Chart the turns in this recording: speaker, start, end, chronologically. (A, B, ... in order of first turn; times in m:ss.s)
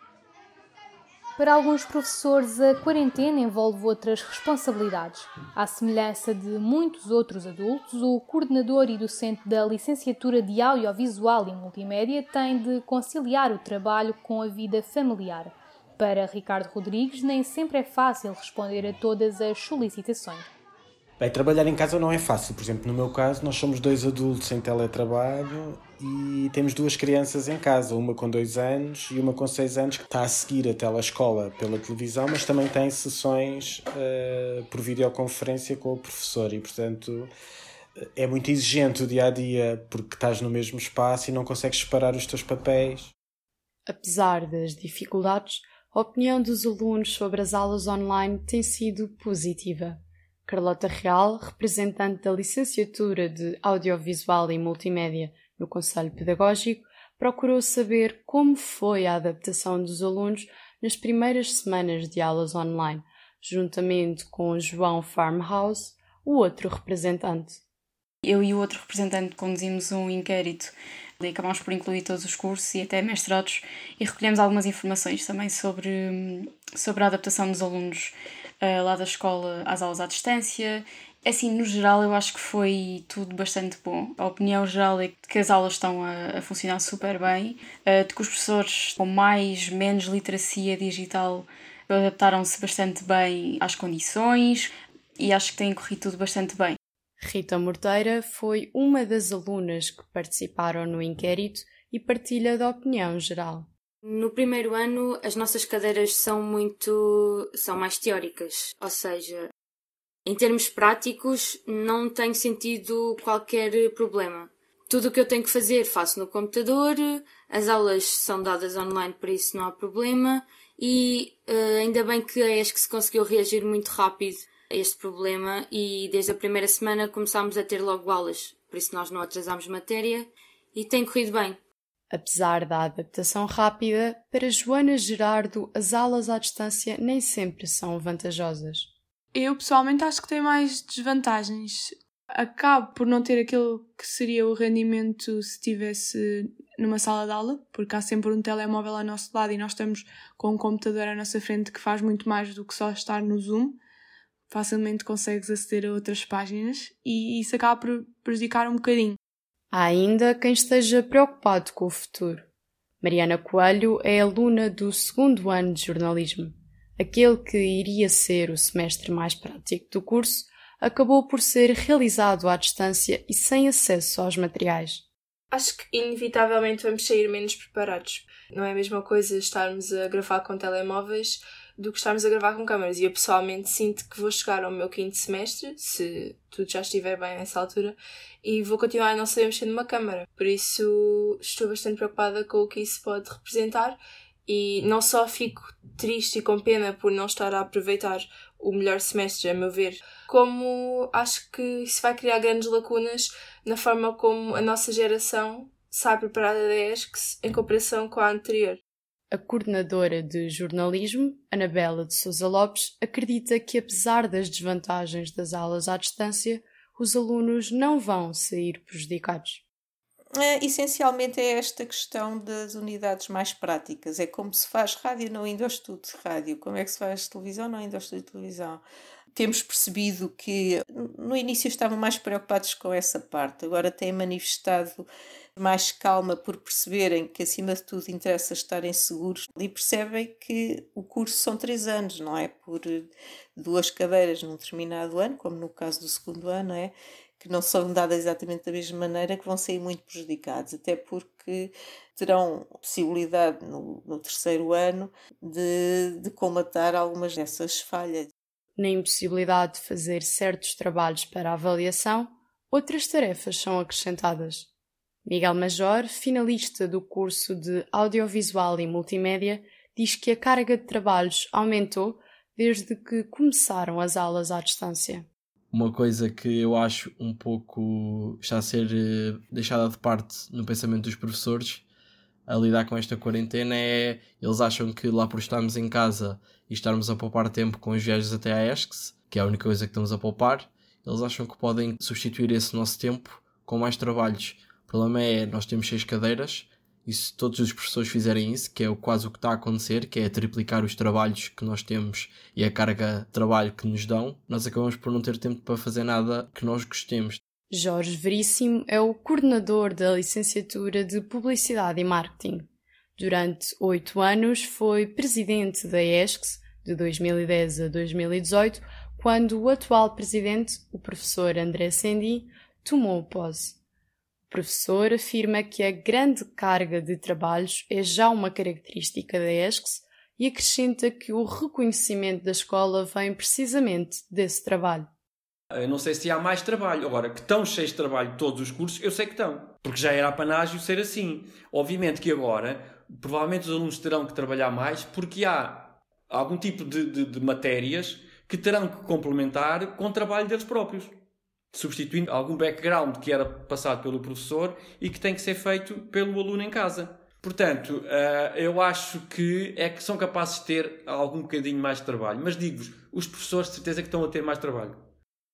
0:01.4-0:20.5 A
0:21.2-0:37.3 B
0:38.0-0:43.1 B
0:43.9-1:07.6 C
1:08.2-1:36.8 D
1:37.2-1:43.7 C
1:44.0-1:49.5 E
1:50.2-2:11.6 E
2:12.1-2:18.9 C
2:19.3-2:33.8 F
2:34.5-2:39.2 F
2:39.7-2:42.4 C
2:43.0-2:55.0 C
2:55.5-3:28.8 G
3:29.3-3:39.6 C
3:40.4-4:18.3 H
4:18.8-4:24.7 C
4:25.2-4:35.2 C
4:35.7-4:41.8 I
4:42.5-5:07.4 I
5:07.7-5:23.8 C
5:24.5-5:35.1 C
5:35.7-5:51.2 J
5:51.7-6:05.0 J